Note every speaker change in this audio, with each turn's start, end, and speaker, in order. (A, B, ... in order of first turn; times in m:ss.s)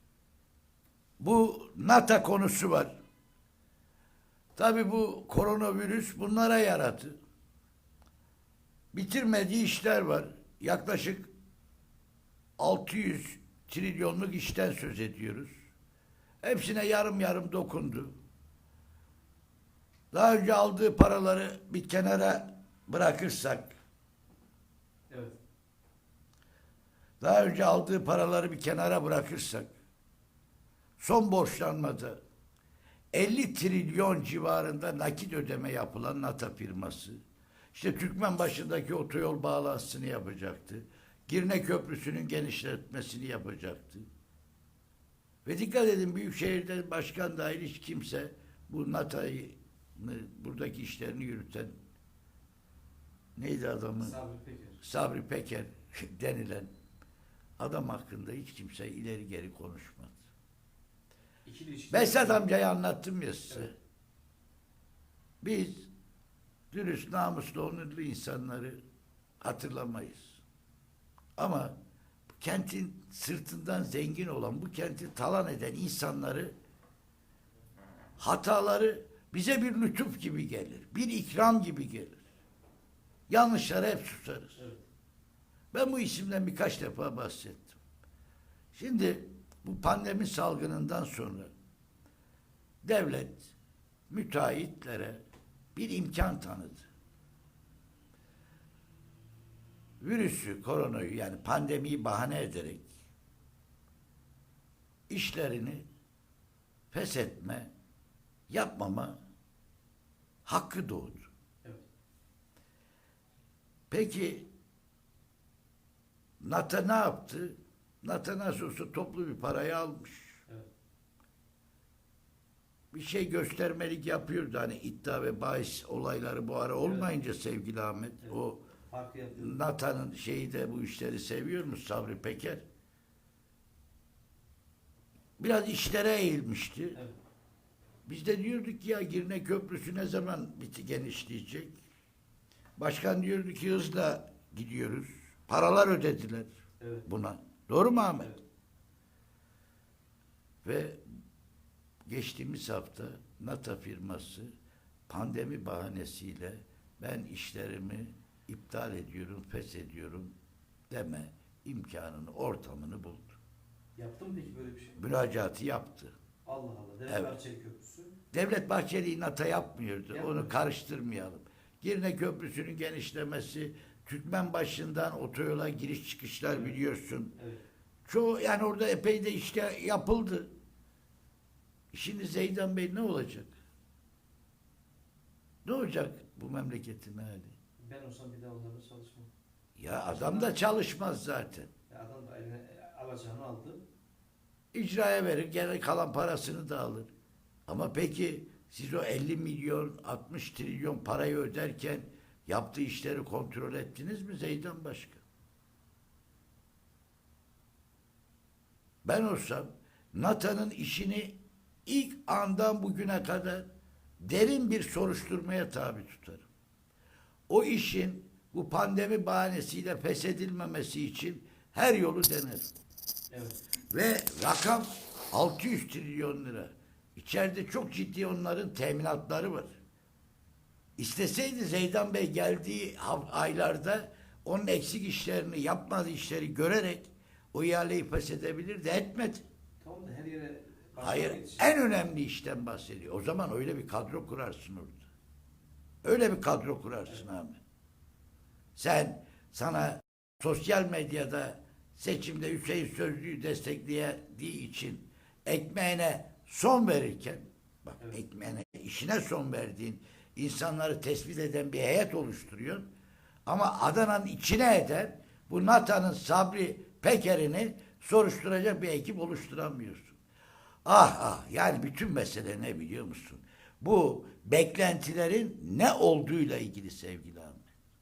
0:01.2-0:03.0 A
0:04.6-0:07.2 A
0:08.9-0:11.3 A
0:12.6-0:15.6 A
0:16.4-0:18.2 A
0:20.1-0:23.7 A
0:25.1-0:25.4 B
0:27.2-0:29.7 A
0:31.0-0:32.2 A
0:33.1-0:37.2 A
0:37.7-0:44.1 A
0:45.4-0:51.8 A
0:53.4-0:54.2 A
0:54.0-0:54.8 B
0:54.8-0:56.7 A
0:57.6-1:00.2 A
1:01.4-1:02.4 B
1:01.9-1:03.7 A
1:05.4-1:05.9 A
1:06.7-1:08.8 A
1:09.4-1:10.4 A
1:11.4-1:11.8 A
1:12.4-1:16.5 A
1:18.2-1:22.2 A
1:23.3-1:24.6 A
1:24.6-1:24.8 B
1:25.7-1:27.8 A
1:28.7-1:31.5 A
1:32.8-1:33.5 A
1:34.1-1:35.2 A
1:35.8-1:36.9 A
1:40.0-1:42.9 A
1:45.1-1:45.8 A
1:46.9-1:47.7 A
1:48.5-1:49.2 A
1:50.4-1:51.3 A
1:53.9-1:54.5 A
1:56.4-2:00.4 A
2:02.9-2:08.7 A
2:06.8-2:07.1 B
2:08.2-2:09.6 B
2:09.4-2:12.6 A
2:15.4-2:17.0 A
2:18.1-2:21.8 A
2:22.8-2:26.5 A
2:26.8-2:27.1 B
2:27.1-2:28.3 A
2:30.6-2:31.0 A
2:32.1-2:34.6 A
2:35.1-2:40.3 A
2:40.9-2:43.4 A
2:44.0-2:45.0 B
2:45.0-2:46.2 A
2:46.4-2:48.2 B
2:47.1-2:47.4 A
2:48.3-2:57.4 A
2:50.1-2:50.6 B
2:56.5-2:56.8 B
2:57.4-2:57.6 B
2:58.1-3:00.5 A
3:01.9-3:03.5 A
3:05.6-3:07.6 A
3:07.8-3:09.3 B
3:09.8-3:11.7 A
3:10.1-3:10.6 B
3:11.9-3:13.8 B
3:14.7-3:17.1 A
3:17.7-3:25.2 A
3:29.0-3:33.7 A
3:34.2-3:36.5 A
3:37.5-3:42.7 A
3:43.3-3:43.6 B
3:43.9-3:49.8 A
3:51.0-3:59.4 A
3:59.8-4:01.8 B
4:01.0-4:05.0 A
4:06.0-4:07.6 A
4:08.8-4:22.9 A
4:23.5-4:30.2 A
4:30.8-4:37.7 A